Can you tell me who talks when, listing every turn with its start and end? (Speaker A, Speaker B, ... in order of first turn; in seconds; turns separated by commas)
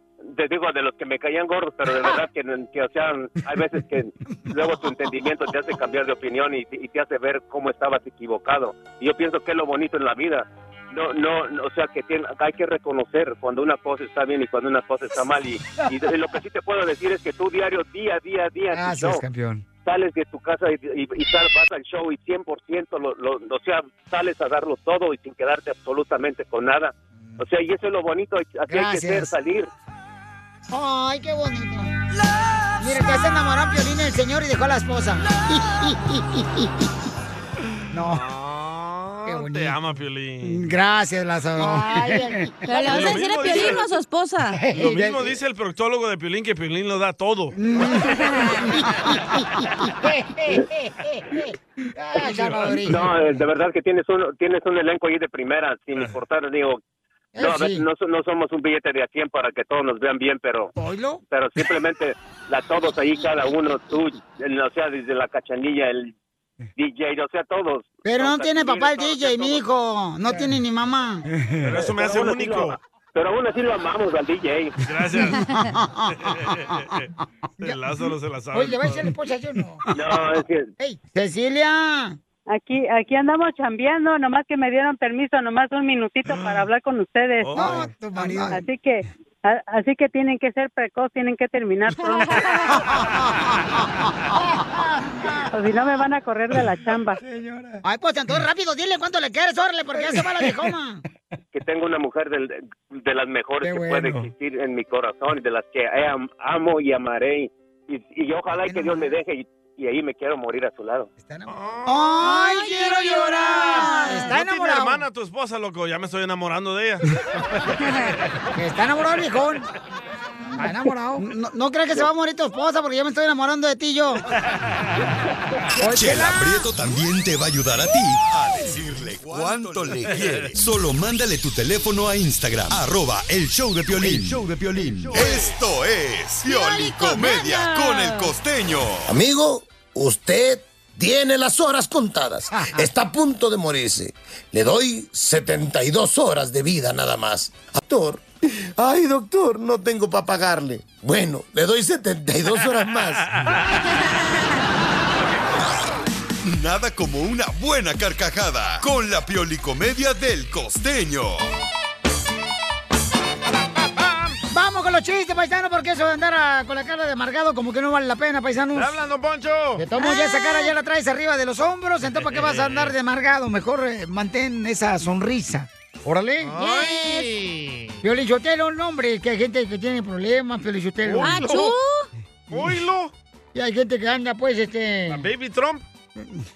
Speaker A: 0.2-19.2, Speaker B: 18.7-19.6, Speaker A: 19.8-29.7, Speaker B: 28.7-29.3, Speaker B: 30.7-31.9, Speaker B: 32.8-36.7, Speaker B: 37.9-38.2, Speaker C: 38.0-40.7, Speaker B: 39.3-39.8, Speaker B: 40.4-43.7, Speaker D: 42.6-44.6, Speaker C: 42.9-43.9, Speaker B: 44.5-45.4, Speaker C: 44.7-48.7, Speaker B: 47.5-53.1, Speaker C: 52.2-52.9, Speaker A: 52.9-56.8, Speaker B: 57.4-57.9, Speaker A: 57.4-60.7, Speaker B: 60.8-61.2, Speaker A: 61.3-66.1, Speaker A: 66.8-69.6, Speaker B: 68.0-71.2, Speaker C: 71.6-72.8, Speaker A: 71.8-74.8, Speaker C: 74.8-75.6, Speaker B: 75.2-76.1, Speaker C: 76.1-79.1, Speaker B: 78.5-79.8, Speaker A: 79.9-80.7, Speaker B: 80.8-82.2, Speaker E: 82.5-87.7, Speaker C: 87.4-87.9, Speaker B: 87.5-88.6, Speaker E: 88.4-92.5, Speaker D: 92.1-92.8, Speaker B: 94.5-95.4, Speaker E: 95.5-97.2, Speaker B: 97.8-101.0, Speaker A: 101.5-111.1, Speaker B: 103.6-104.3, Speaker B: 108.6-109.1, Speaker B: 111.2-115.0, Speaker C: 111.5-112.1, Speaker D: 112.2-114.3, Speaker C: 113.8-117.6, Speaker B: 118.5-119.7, Speaker B: 120.6-124.2, Speaker C: 124.4-125.0, Speaker B: 125.8-126.7, Speaker F: 125.9-139.0, Speaker C: 130.1-130.5, Speaker D: 136.4-138.4, Speaker G: 139.1-148.2, Speaker B: 142.6-142.9, Speaker G: 148.8-153.3, Speaker C: 153.4-153.7, Speaker C: 155.2-155.4, Speaker F: 156.4-161.4, Speaker C: 163.6-164.4, Speaker B: 164.5-168.9, Speaker C: 168.7-169.9, Speaker B: 169.8-177.2, Speaker D: 170.0-170.7, Speaker C: 172.1-172.9, Speaker C: 176.4-177.9, Speaker D: 176.6-177.2, Speaker B: 178.0-181.6, Speaker C: 181.1-181.7, Speaker D: 181.2-182.1, Speaker C: 182.5-183.1, Speaker B: 183.5-185.3, Speaker C: 185.1-185.8, Speaker B: 186.2-186.4